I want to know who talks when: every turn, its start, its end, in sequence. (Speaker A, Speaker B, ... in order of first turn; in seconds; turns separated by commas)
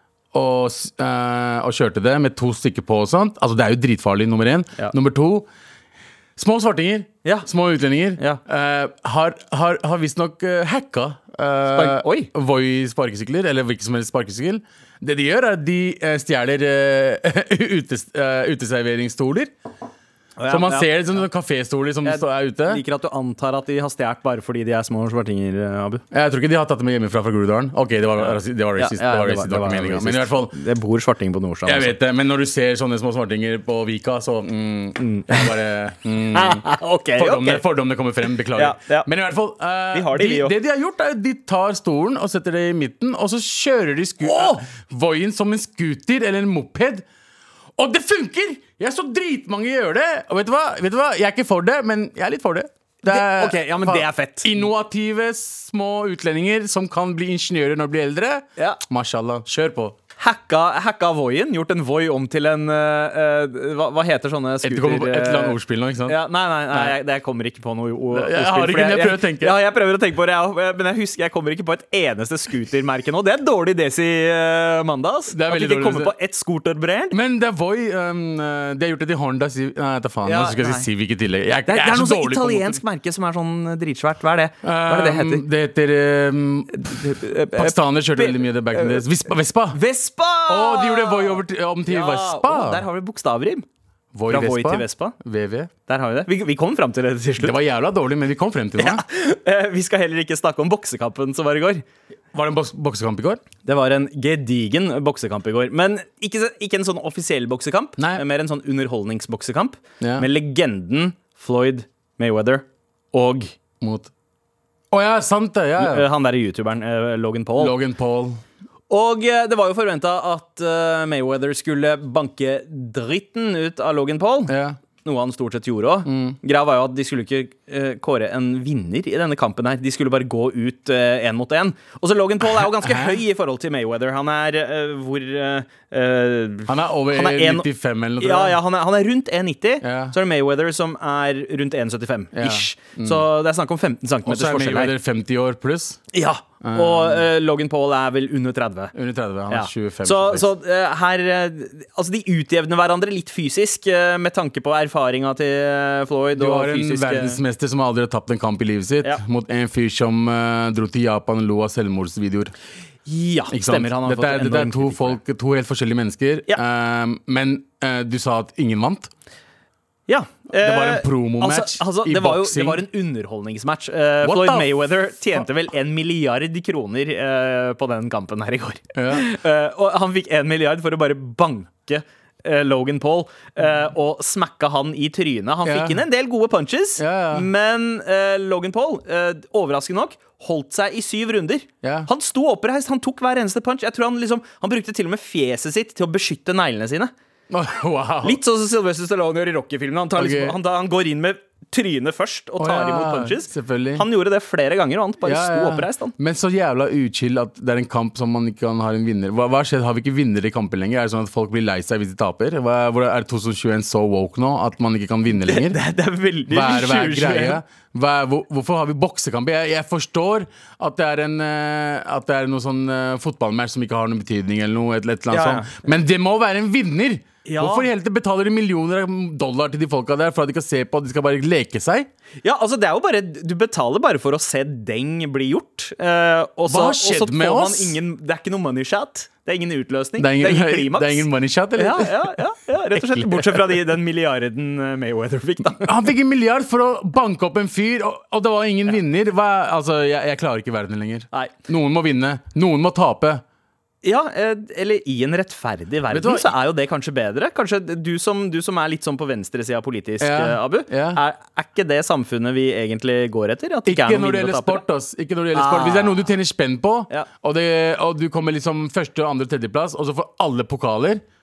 Speaker A: 0.3-5.5, Speaker A: 6.4-19.5, Speaker B: 11.7-12.3, Speaker B: 20.4-20.9, Speaker A: 20.5-22.8, Speaker B: 22.0-26.0, Speaker A: 26.1-30.6, Speaker B: 28.2-31.9, Speaker A: 31.7-47.0, Speaker B: 35.0-35.5, Speaker B: 36.3-37.6, Speaker B: 38.5-39.1, Speaker B: 39.9-40.5, Speaker B: 44.2-44.7, Speaker A: 47.8-60.0, Speaker B: 53.1-54.6, Speaker B: 60.2-77.2, Speaker A: 64.6-66.2, Speaker A: 68.1-69.6, Speaker A: 75.3-76.1, Speaker A: 77.1-82.8, Speaker B: 80.2-80.9, Speaker B: 81.7-85.5, Speaker A: 84.6-87.0, Speaker B: 86.7-89.1, Speaker A: 87.5-89.8, Speaker B: 89.7-93.7, Speaker A: 90.5-92.8, Speaker A: 94.1-95.7, Speaker B: 94.3-95.2, Speaker B: 95.9-97.6, Speaker A: 97.4-99.0, Speaker B: 98.8-101.8, Speaker A: 102.3-103.4, Speaker B: 103.6-113.5, Speaker A: 108.0-108.2, Speaker A: 110.0-110.3, Speaker A: 113.8-114.1, Speaker A: 114.9-116.1, Speaker B: 115.8-117.8, Speaker A: 117.6-118.4, Speaker B: 118.9-137.7, Speaker A: 124.5-124.8, Speaker A: 126.1-126.4, Speaker A: 132.6-133.2, Speaker A: 136.7-138.6, Speaker B: 138.2-144.9, Speaker A: 139.8-140.2, Speaker A: 142.3-143.3, Speaker A: 144.2-146.0, Speaker B: 146.1-148.9, Speaker A: 146.6-147.2, Speaker A: 148.9-150.5, Speaker B: 149.5-157.4, Speaker A: 156.3-162.5, Speaker B: 163.1-165.2, Speaker A: 163.5-169.1, Speaker B: 170.1-197.1, Speaker A: 170.5-172.8, Speaker A: 174.2-175.4, Speaker A: 178.9-179.3, Speaker A: 185.7-186.0, Speaker A: 187.0-187.5, Speaker A: 191.8-192.1, Speaker A: 197.5-198.4, Speaker B: 198.2-206.2, Speaker A: 200.2-200.6, Speaker A: 202.6-204.1, Speaker A: 205.2-215.8, Speaker B: 215.5-217.6, Speaker A: 216.5-232.1, Speaker B: 225.3-225.9, Speaker B: 227.4-227.9, Speaker B: 232.4-246.0, Speaker A: 236.7-238.0, Speaker A: 240.2-242.3, Speaker A: 242.9-243.8, Speaker A: 245.8-253.4, Speaker B: 254.0-264.8, Speaker A: 256.1-256.5, Speaker A: 260.2-261.2, Speaker A: 263.9-271.2, Speaker B: 265.5-266.2